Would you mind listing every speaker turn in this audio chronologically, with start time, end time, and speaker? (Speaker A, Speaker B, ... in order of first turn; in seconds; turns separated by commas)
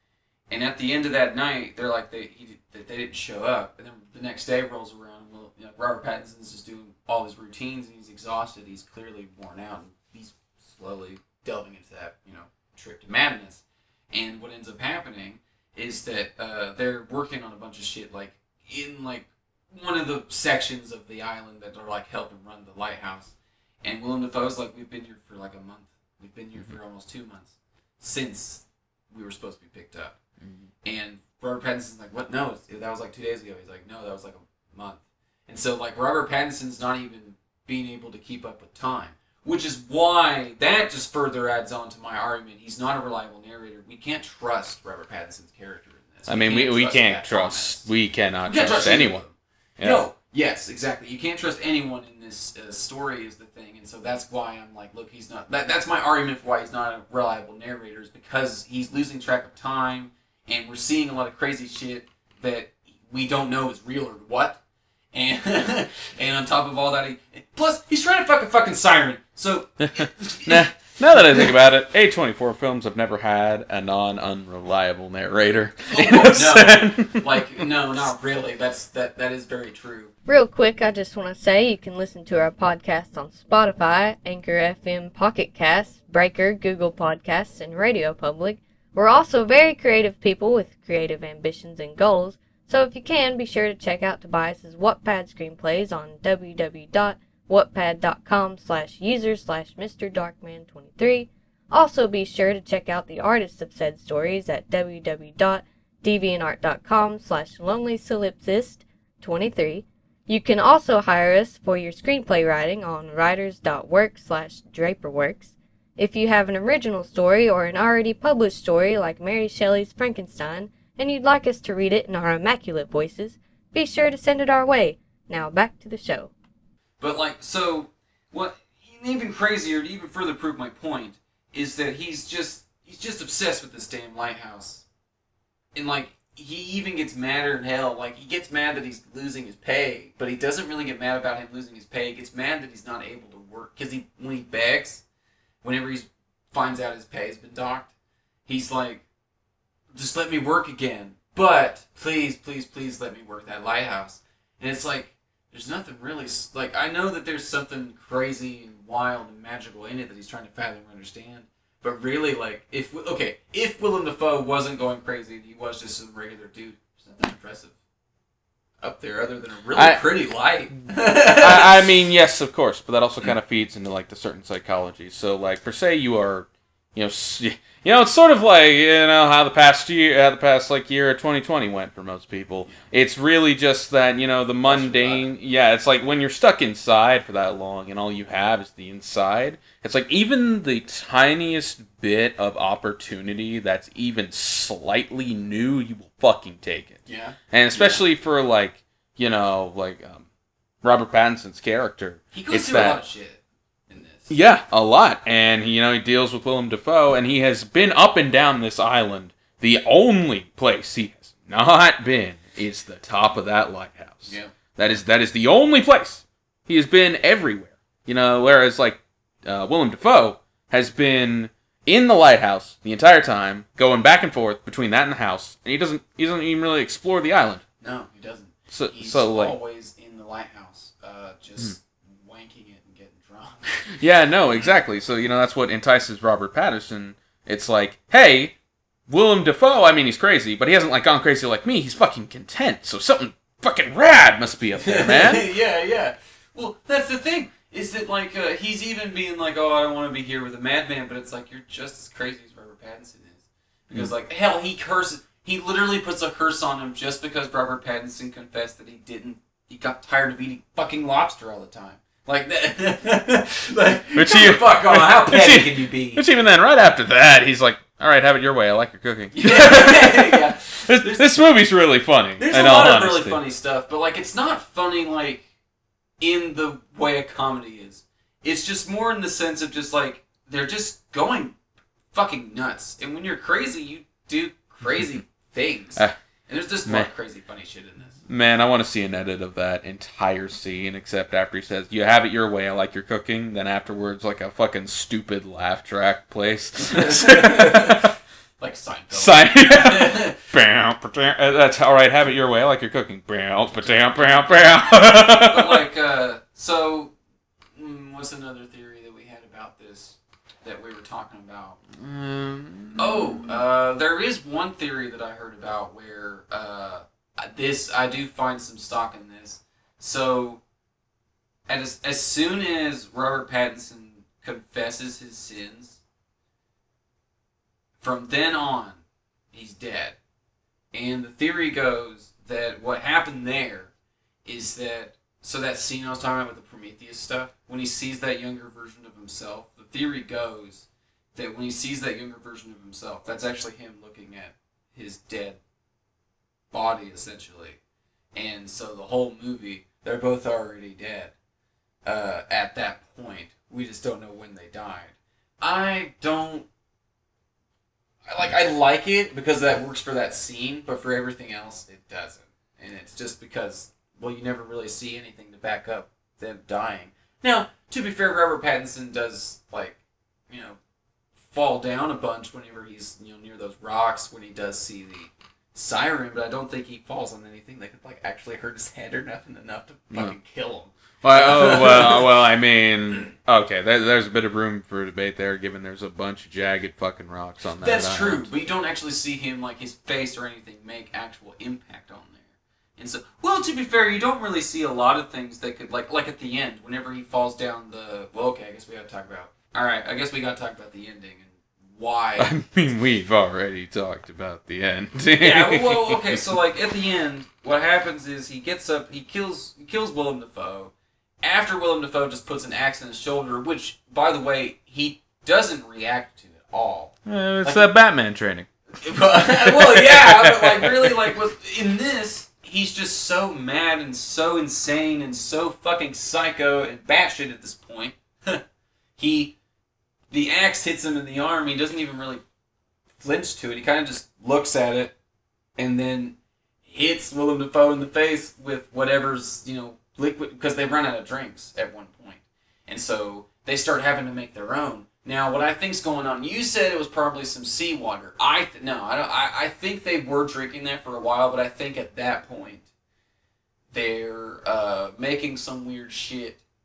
Speaker A: 0.5-30.2, Speaker A: 30.8-47.9, Speaker B: 46.3-49.2, Speaker A: 48.4-64.6, Speaker A: 65.1-71.5, Speaker B: 70.0-77.2, Speaker A: 75.9-80.1, Speaker C: 80.2-126.3, Speaker A: 127.0-134.8, Speaker A: 135.7-145.0, Speaker A: 145.6-147.9, Speaker A: 148.5-149.0, Speaker A: 149.9-167.7, Speaker A: 168.8-171.8, Speaker B: 169.8-170.0, Speaker B: 171.3-200.2, Speaker A: 184.6-185.3, Speaker A: 197.1-198.0, Speaker B: 200.8-203.0, Speaker A: 202.3-204.3, Speaker B: 204.3-227.6, Speaker A: 214.3-214.5, Speaker A: 227.8-234.0, Speaker B: 228.7-229.5, Speaker B: 234.0-238.5, Speaker B: 239.1-245.4, Speaker A: 244.8-266.2, Speaker B: 264.1-273.4, Speaker A: 269.3-271.4, Speaker A: 272.4-275.4, Speaker A: 276.2-281.6, Speaker A: 282.1-288.2, Speaker B: 288.3-298.1, Speaker A: 296.9-300.4, Speaker B: 299.1-305.8, Speaker A: 304.1-304.5, Speaker A: 305.1-307.1, Speaker A: 307.8-311.8, Speaker B: 311.9-313.6, Speaker A: 313.0-320.6, Speaker A: 321.7-326.0, Speaker A: 328.0-329.0, Speaker A: 329.5-330.2, Speaker A: 330.9-333.9, Speaker A: 334.4-345.6, Speaker A: 346.7-347.8, Speaker A: 348.3-351.3, Speaker A: 352.0-356.7, Speaker A: 358.3-370.0, Speaker A: 370.5-370.8, Speaker A: 371.4-382.3, Speaker B: 381.2-388.5, Speaker A: 387.8-402.5, Speaker B: 402.4-406.4, Speaker A: 405.4-417.9, Speaker B: 417.2-418.7, Speaker A: 419.0-428.6, Speaker B: 419.4-421.1, Speaker A: 429.2-429.6, Speaker A: 430.3-432.4, Speaker A: 433.2-435.1, Speaker A: 435.8-452.9, Speaker A: 453.9-456.6